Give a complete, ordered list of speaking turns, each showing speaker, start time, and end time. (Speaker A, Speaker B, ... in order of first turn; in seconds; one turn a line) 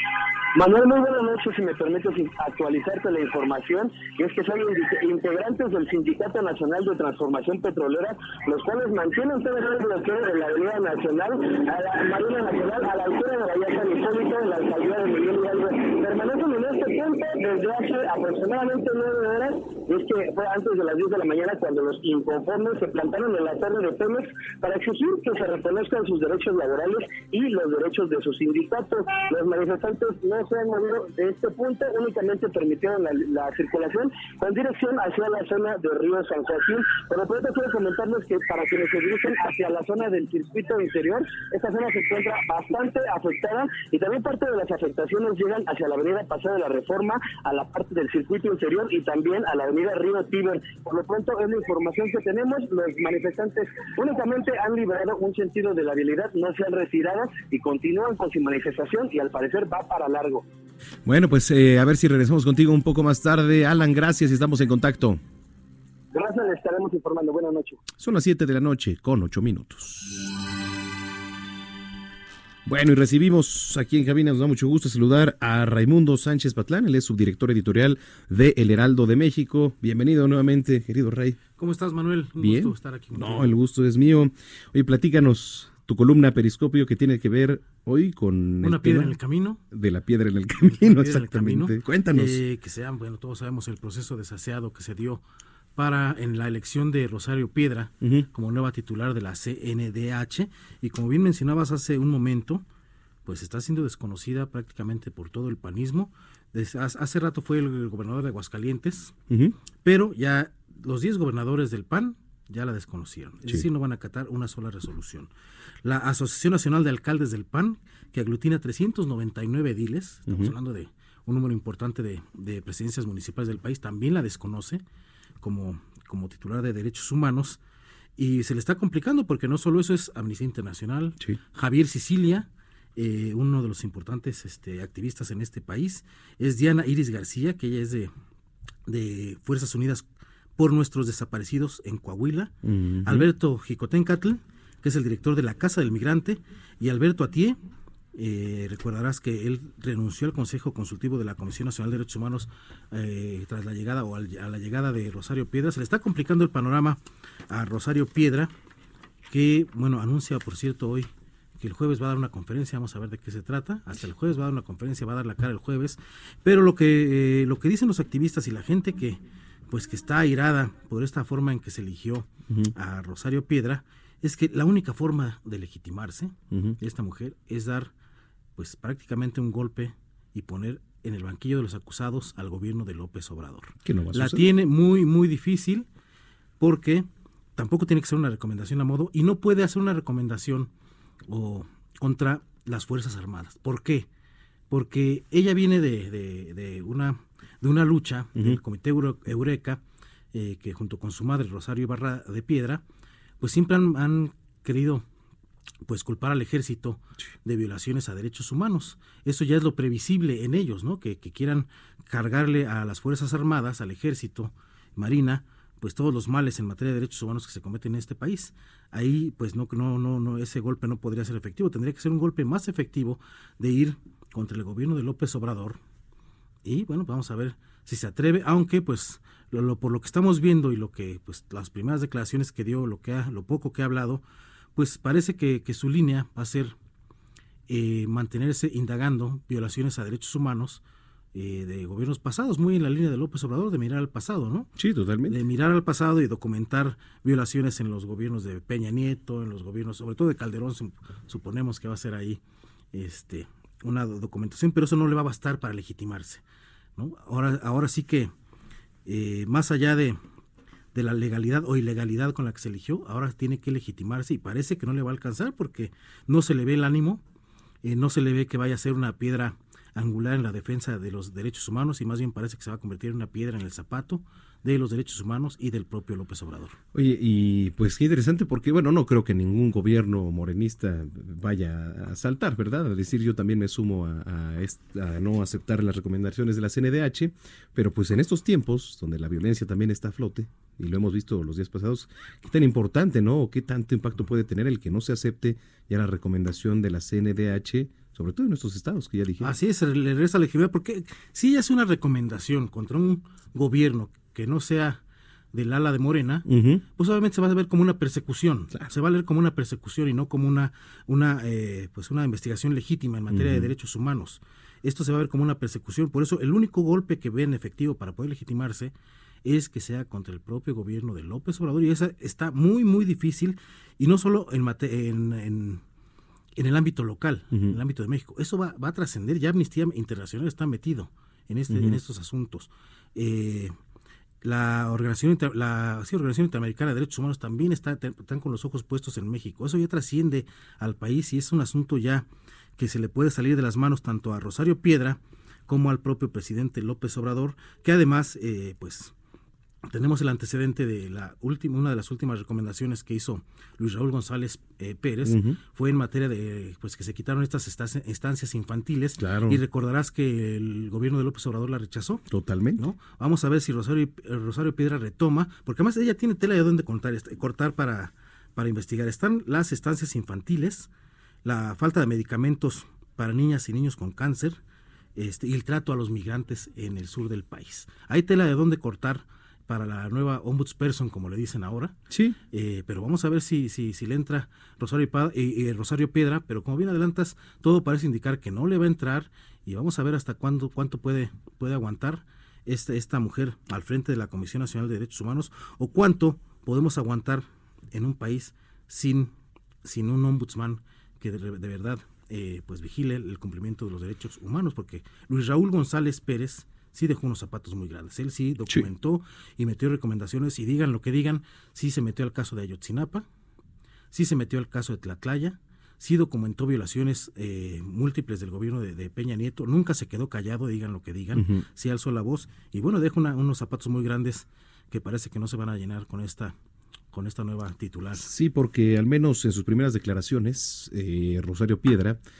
Speaker A: 0.5-60.4
Speaker B: 61.0-65.2
Speaker A: 66.1-67.8
Speaker B: 68.0-70.3
Speaker B: 72.7-81.4
Speaker C: 81.6-83.4
Speaker B: 82.4-89.2
Speaker C: 88.6-89.6
Speaker B: 89.7-92.4
Speaker C: 90.8-95.2
Speaker C: 95.8-102.6
Speaker B: 98.0-98.3
Speaker C: 103.2-109.1
Speaker B: 109.3-109.5
Speaker C: 109.8-115.3
Speaker C: 115.8-124.8
Speaker B: 120.3-120.5
Speaker C: 125.4-127.6
Speaker C: 128.2-138.1
Speaker C: 138.9-140.0
Speaker C: 140.6-142.5
Speaker B: 142.6-143.3
Speaker C: 143.2-147.6
Speaker C: 148.2-157.0
Speaker C: 157.5-158.5
Speaker C: 159.3-161.1
Speaker C: 161.6-169.2
Speaker C: 169.7-172.3
Speaker C: 172.8-176.3
Speaker B: 176.5-176.8
Speaker C: 176.9-177.9
Speaker C: 178.6-185.8
Speaker B: 183.8-184.5
Speaker C: 186.6-187.0
Speaker C: 187.6-190.7
Speaker C: 191.3-194.1
Speaker C: 194.7-199.8
Speaker B: 198.3-198.6
Speaker C: 200.3-202.8
Speaker C: 203.4-205.0
Speaker C: 205.9-225.8
Speaker C: 226.7-234.2
Speaker C: 234.8-236.7
Speaker C: 237.7-240.8
Speaker C: 241.3-244.7
Speaker B: 244.8-245.4
Speaker C: 245.5-252.4
Speaker C: 252.9-256.4
Speaker C: 257.0-258.3
Speaker C: 259.1-260.2
Speaker C: 260.9-267.2
Speaker C: 267.8-276.7
Speaker B: 276.9-299.6
Speaker C: 299.5-305.0
Speaker C: 305.5-306.4
Speaker B: 306.4-306.8
Speaker C: 307.0-318.9
Speaker B: 313.3-313.7
Speaker C: 319.4-325.8
Speaker C: 326.6-333.7
Speaker B: 327.5-327.8
Speaker B: 331.7-332.0
Speaker C: 334.4-342.2
Speaker C: 342.8-349.1
Speaker C: 349.9-362.2
Speaker B: 355.2-355.6
Speaker B: 359.2-359.6
Speaker B: 362.3-362.9
Speaker C: 362.8-370.9
Speaker C: 371.4-374.6
Speaker C: 375.2-381.9
Speaker B: 382.1-382.4
Speaker C: 382.5-399.3
Speaker C: 399.9-413.2
Speaker C: 414.1-426.5
Speaker B: 421.3-421.6
Speaker C: 427.1-428.2
Speaker B: 428.1-432.2